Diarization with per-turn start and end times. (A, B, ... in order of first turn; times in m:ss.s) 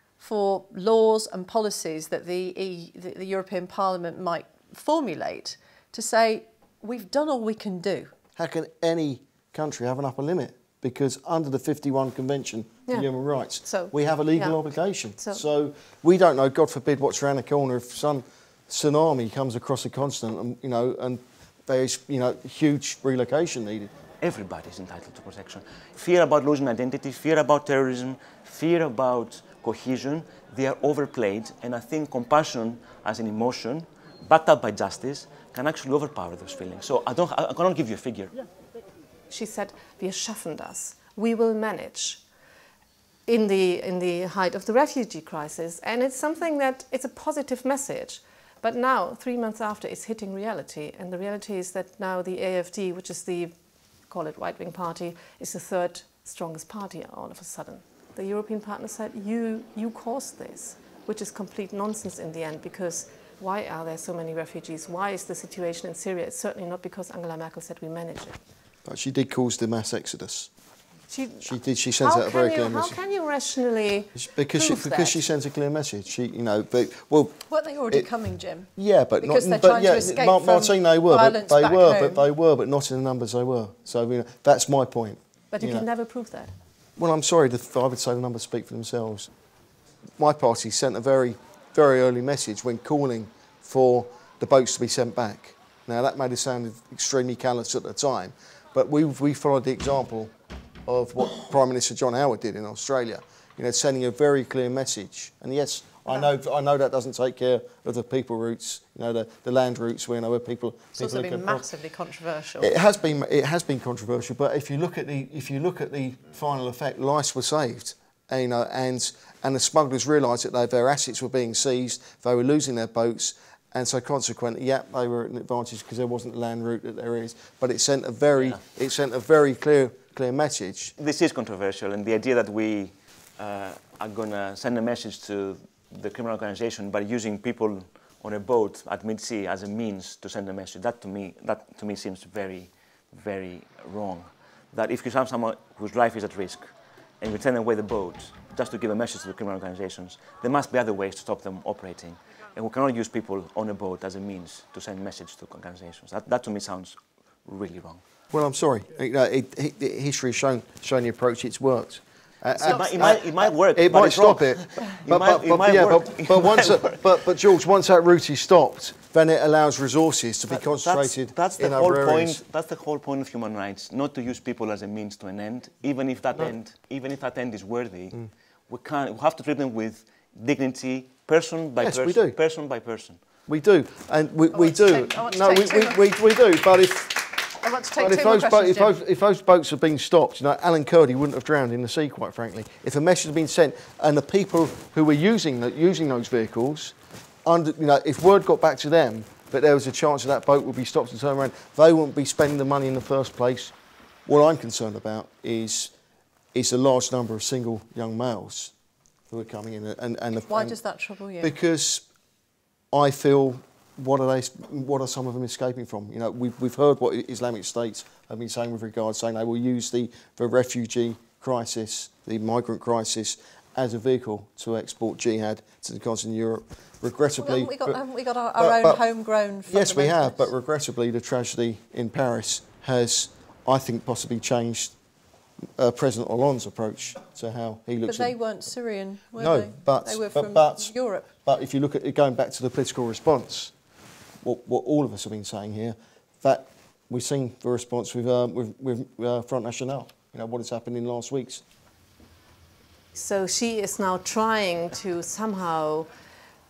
0:00.2-0:08.1 A
0:08.4-0:23.9 B
0:12.9-0:15.4 C
0:24.2-0:38.3 D
0:39.3-0:42.2 C
0:43.3-0:53.5 C
0:54.1-1:08.4 C
1:08.8-1:10.5 B
1:11.1-1:15.2 C
1:11.4-1:13.0 B
1:14.2-1:18.1 B
1:17.5-1:18.7 A
1:18.7-1:25.8 B
1:19.2-1:22.2 A
1:25.5-1:26.5 C
1:27.0-1:29.3 B
1:30.2-1:40.3 B
1:40.8-1:51.7 B
1:50.9-1:52.8 A
1:52.6-2:10.9 B
2:08.3-2:08.6 D
2:11.0-2:38.0 D
2:38.3-2:52.4 B
2:42.6-2:47.1 D
2:42.7-2:43.0 A
2:50.5-3:03.2 D
3:01.8-3:02.4 B
3:03.5-3:07.3 B
3:04.5-3:06.0 A
3:07.4-3:08.9 A
3:08.0-3:23.7 B
3:24.2-3:25.9 B
3:26.5-3:28.7 B
3:29.3-3:30.8 B
3:30.5-3:31.6 A
3:31.4-3:32.0 B
3:32.9-3:48.0 B
3:47.4-3:50.5 A
3:48.6-3:49.0 B
3:49.7-3:54.9 B
3:55.8-3:58.4 B
3:58.0-4:01.3 A
3:59.4-4:03.7 B
4:04.4-4:11.6 B
4:13.1-4:16.1 C